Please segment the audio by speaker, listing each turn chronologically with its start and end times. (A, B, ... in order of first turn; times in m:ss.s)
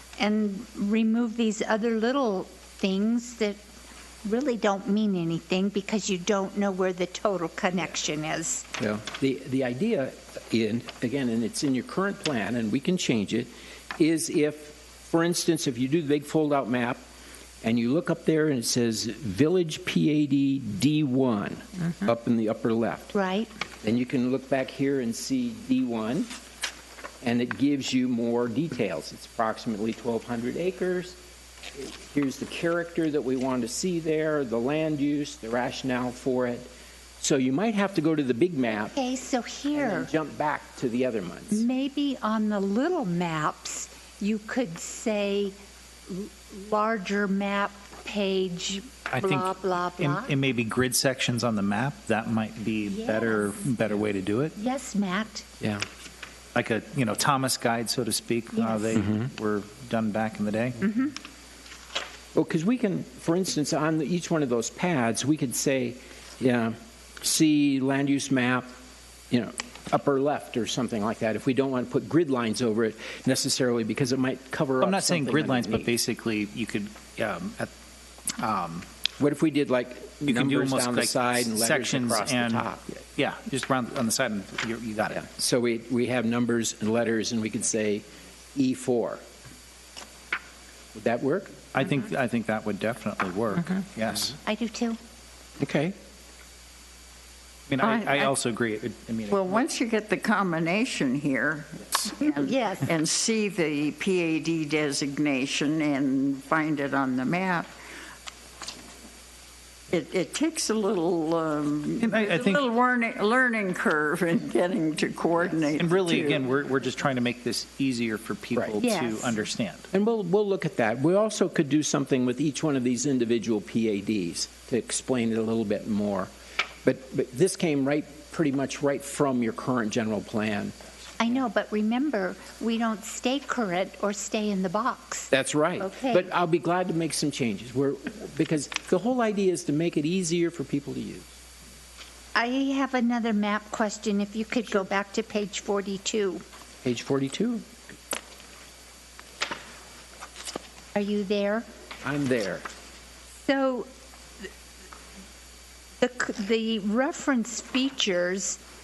0:00.2-0:03.6 A
0:04.2-0:08.6 A
0:08.8-0:17.0 B
0:17.6-0:23.1 B
0:23.1-0:23.5 A
0:23.8-0:26.3 B
0:27.2-0:31.2 B
0:31.7-0:39.0 B
0:38.9-0:40.1 A
0:39.7-0:41.6 B
0:41.5-0:45.5 A
0:46.1-0:50.3 A
0:49.1-0:54.5 C
0:52.9-0:53.7 A
0:54.6-0:55.4 A
0:56.5-1:00.8 C
0:58.5-0:59.0 A
0:59.0-0:59.2 B
1:00.8-1:01.1 A
1:02.3-1:08.7 B
1:09.3-1:15.9 B
1:14.8-1:17.7 C
1:18.4-1:18.8 C
1:19.2-1:23.0 B
1:20.2-1:25.2 C
1:25.1-1:29.2 B
1:30.9-1:31.6 B
1:31.7-1:34.4 C
1:34.4-1:35.0 A
1:35.6-1:35.9 B
1:37.7-1:39.6 C
1:37.8-1:38.3 D
1:39.3-1:47.7 D
1:42.3-1:42.9 A
1:49.9-1:56.4 D
1:52.0-1:52.6 C
1:55.8-1:59.9 C
1:58.8-1:59.4 A
1:59.9-2:06.3 B
2:06.8-2:10.8 B
2:11.2-2:16.3 A
2:15.3-2:21.3 B
2:22.3-2:26.4 A
2:26.8-2:27.6 B
2:30.9-2:31.6 A
2:32.0-2:32.7 B
2:33.4-2:33.9 A
2:36.0-2:38.6 A